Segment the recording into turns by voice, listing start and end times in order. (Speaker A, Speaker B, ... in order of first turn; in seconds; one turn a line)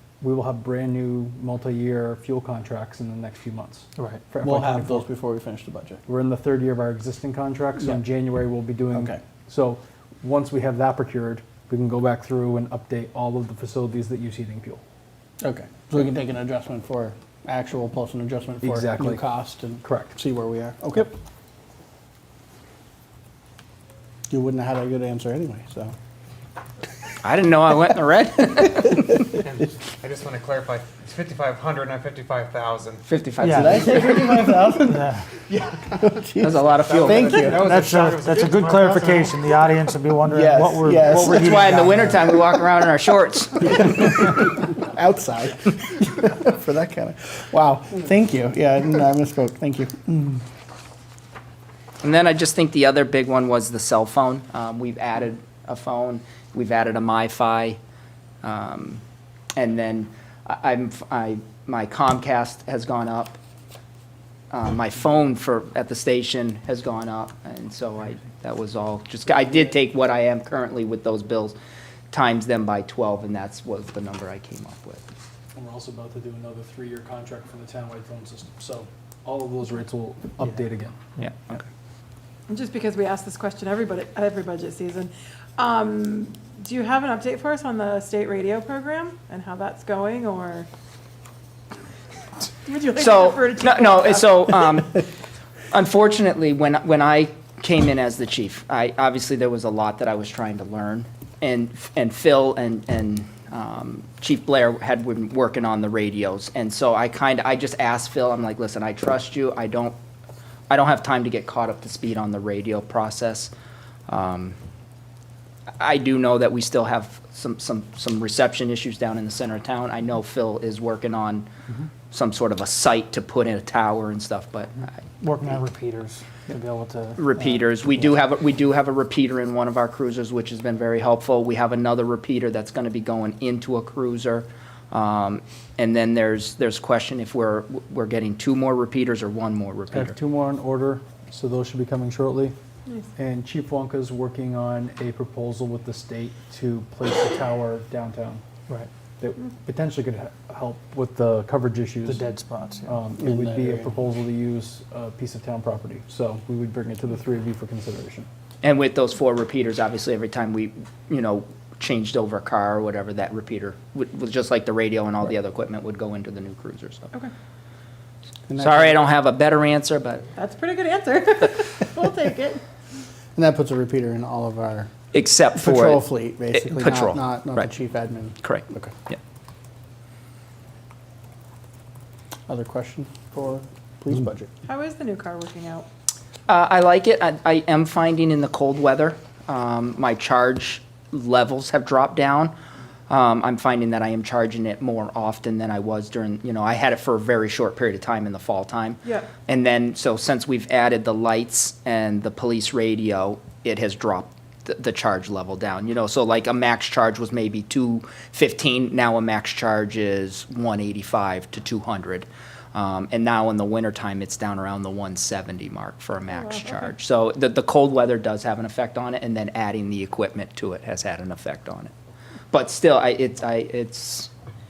Speaker A: 0.2-5.0
Speaker B: 4.0-4.2
Speaker C: 4.4-6.0
Speaker A: 6.1-14.8
Speaker C: 8.9-9.2
Speaker C: 15.4-21.1
Speaker A: 18.6-19.2
Speaker A: 19.8-20.1
Speaker C: 24.3-25.9
Speaker D: 27.2-29.3
Speaker E: 29.5-33.1
Speaker D: 33.1-34.2
Speaker B: 33.4-35.3
Speaker C: 33.5-35.0
Speaker E: 35.5-35.9
Speaker C: 36.0-37.6
Speaker D: 36.4-37.4
Speaker E: 36.6-39.4
Speaker B: 37.6-42.3
Speaker C: 40.3-41.6
Speaker D: 41.3-43.8
Speaker C: 43.8-50.4
Speaker D: 52.0-57.8
Speaker D: 58.4-59.0
Speaker D: 59.6-63.4
Speaker D: 64.5-71.6
Speaker D: 72.1-75.0
Speaker A: 75.6-81.3
Speaker D: 81.2-81.6
Speaker F: 82.5-90.7
Speaker F: 92.7-94.5
Speaker D: 93.0-95.1
Speaker D: 95.7-110.0
Speaker D: 110.7-113.5
Speaker D: 114.1-114.6
Speaker D: 115.8-121.5
Speaker D: 122.1-124.9
Speaker B: 125.2-127.3
Speaker D: 127.2-140.2
Speaker A: 139.9-142.6
Speaker A: 143.2-148.4
Speaker A: 149.2-152.2
Speaker B: 152.1-153.0
Speaker A: 152.9-158.3
Speaker C: 153.2-153.9
Speaker D: 158.6-167.1
Speaker C: 168.5-168.9
Speaker D: 168.6-170.3
Speaker F: 170.4-172.6
Speaker C: 173.4-174.9
Speaker D: 175.1-177.7
Speaker C: 175.6-178.9
Speaker D: 178.4-179.2
Speaker C: 182.5-184.5
Speaker F: 184.7-185.9
Speaker D: 186.5-192.5
Speaker D: 193.1-221.9
Speaker F: 216.3-216.8
Speaker D: 222.5-224.3